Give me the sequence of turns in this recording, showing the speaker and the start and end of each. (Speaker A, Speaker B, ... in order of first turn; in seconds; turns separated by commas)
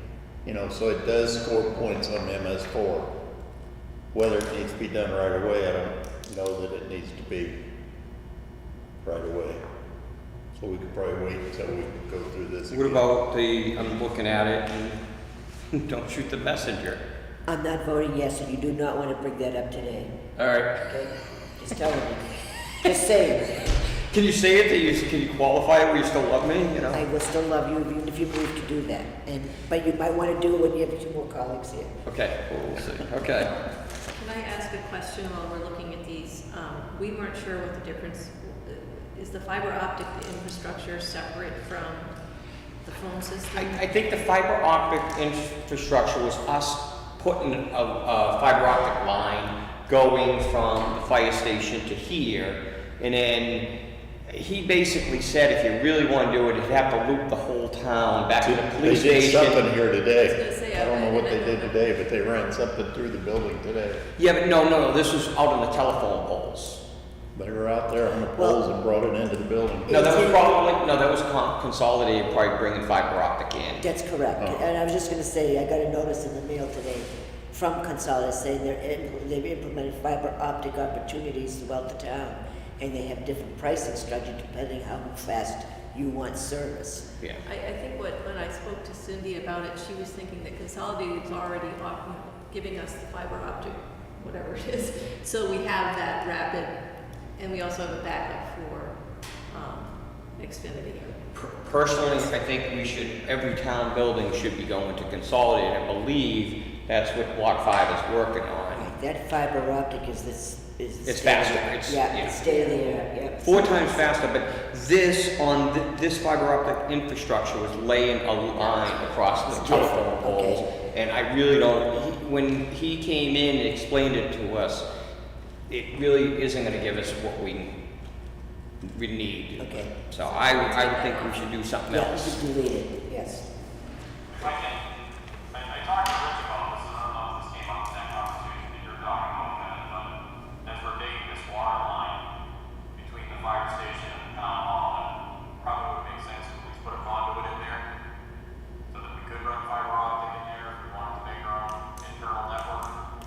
Speaker A: 0.5-3.1, Speaker A: 4.1-7.6, Speaker A: 9.0-9.6, Speaker A: 10.5-13.1, Speaker B: 12.7-15.0, Speaker B: 15.7-17.0, Speaker C: 17.5-20.1, Speaker B: 20.4-21.0, Speaker C: 20.9-23.6, Speaker B: 23.6-27.0, Speaker C: 26.9-31.9, Speaker B: 32.1-33.5, Speaker D: 34.1-42.1, Speaker D: 42.8-43.8, Speaker B: 43.5-53.7, Speaker B: 54.3-59.7, Speaker A: 58.4-64.0, Speaker D: 60.2-62.3, Speaker B: 64.2-66.8, Speaker A: 67.3-70.0, Speaker C: 68.3-68.6, Speaker C: 69.9-70.5, Speaker B: 69.9-73.8, Speaker C: 73.8-87.1, Speaker D: 87.5-96.7, Speaker D: 97.4-99.0, Speaker D: 99.5-101.3, Speaker B: 101.3-108.8, Speaker C: 108.7-114.1, Speaker B: 111.1-112.4, Speaker D: 112.5-112.8, Speaker B: 113.4-124.9, Speaker D: 118.6-119.7, Speaker C: 119.5-120.7, Speaker B: 125.7-127.8, Speaker B: 128.8-132.4, Speaker C: 129.6-129.9, Speaker D: 130.2-131.5, Speaker C: 131.9-133.5, Speaker E: 134.3-134.8, Speaker E: 135.5-140.1, Speaker E: 140.6-142.2, Speaker E: 143.0-147.8, Speaker E: 148.9-153.0